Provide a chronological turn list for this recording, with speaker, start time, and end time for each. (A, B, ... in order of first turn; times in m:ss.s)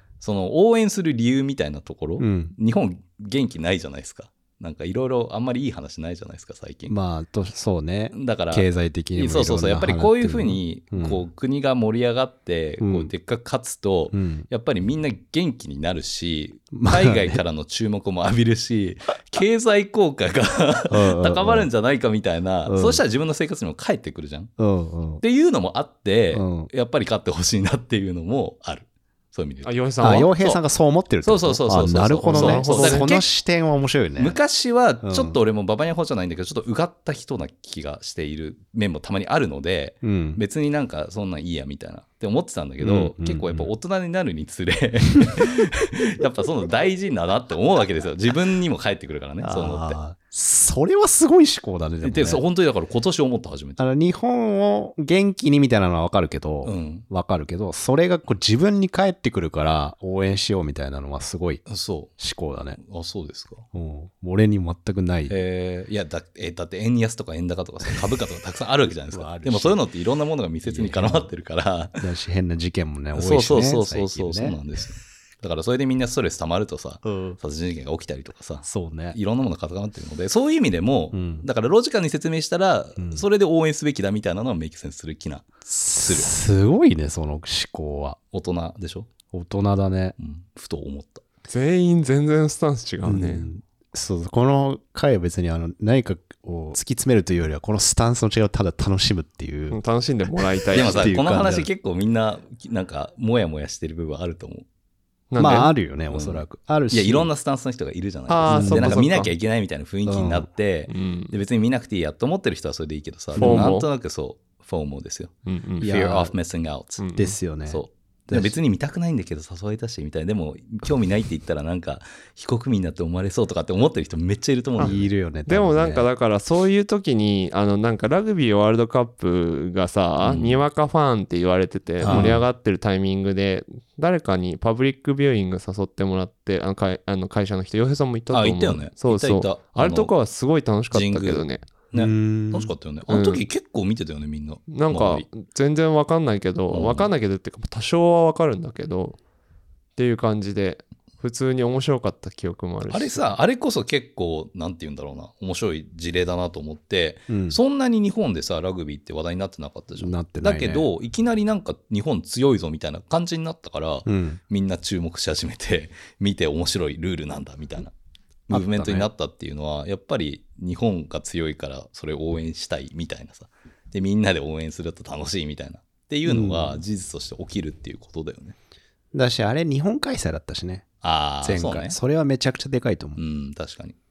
0:00.2-0:06.9 A
0:02.2-0:02.5 B
0:06.9-0:11.2 B
0:08.1-0:24.5 A
0:12.8-0:13.1 B
0:14.1-0:14.5 B
0:16.7-0:17.4 B
0:20.9-0:21.7 B
0:22.6-0:23.0 B
0:24.6-0:25.2 B
0:25.2-0:30.6 A
0:26.3-0:26.7 B
0:29.6-0:30.3 C
0:30.0-0:34.4 B
0:31.2-0:33.2 A
0:32.2-0:33.2 C
0:34.2-0:50.0 A
0:35.0-0:35.4 B
0:40.0-0:40.4 B
0:42.8-0:43.7 B
0:49.4-0:52.4 B
0:52.0-0:53.8 A
0:53.8-1:01.6 B
0:56.6-0:57.0 A
1:01.7-1:02.1 A
1:02.2-1:02.8 B
1:02.8-1:03.6 A
1:03.7-1:05.4 B
1:05.3-1:12.0 A
1:09.1-1:09.8 B
1:10.6-1:11.2 B
1:12.0-1:14.6 B
1:13.2-1:25.5 A
1:17.0-1:17.4 B
1:18.6-1:19.2 B
1:21.1-1:21.4 B
1:23.0-1:23.2 B
1:25.6-1:28.2 B
1:26.0-1:26.4 A
1:28.3-1:29.1 A
1:29.3-1:30.1 B
1:30.2-1:31.2 A
1:31.5-1:33.5 C
1:33.0-1:39.8 B
1:39.7-1:41.2 C
1:40.7-1:41.7 B
1:40.7-1:44.6 A
1:45.3-1:45.7 C
1:45.4-1:47.3 B
1:46.1-1:57.0 A
1:48.3-1:49.3 C
1:48.5-1:49.0 B
1:50.1-1:50.5 B
1:50.9-1:51.3 C
1:53.4-1:53.7 B
1:53.4-1:53.9 C
1:55.4-1:55.9 C
1:55.8-1:56.3 B
1:57.0-1:57.4 C
1:57.2-1:58.5 B
1:57.7-2:05.1 A
2:04.8-2:06.1 B
2:05.5-2:21.6 C
2:10.2-2:10.6 A
2:12.0-2:12.4 B
2:12.0-2:12.4 A
2:18.3-2:20.1 A
2:20.9-2:25.2 A
2:21.9-2:22.7 B
2:23.1-2:23.4 C
2:24.7-2:29.2 C
2:26.7-2:27.1 A
2:30.0-2:33.3 C
2:32.9-2:47.9 A
2:37.3-2:37.6 B
2:40.0-2:40.9 B
2:44.0-2:44.4 B
2:48.5-2:58.6 A
2:48.5-2:49.1 B
2:56.2-2:56.8 B
2:59.1-3:00.9 B
3:01.0-3:02.0 A
3:01.4-3:03.2 B
3:03.2-3:04.0 A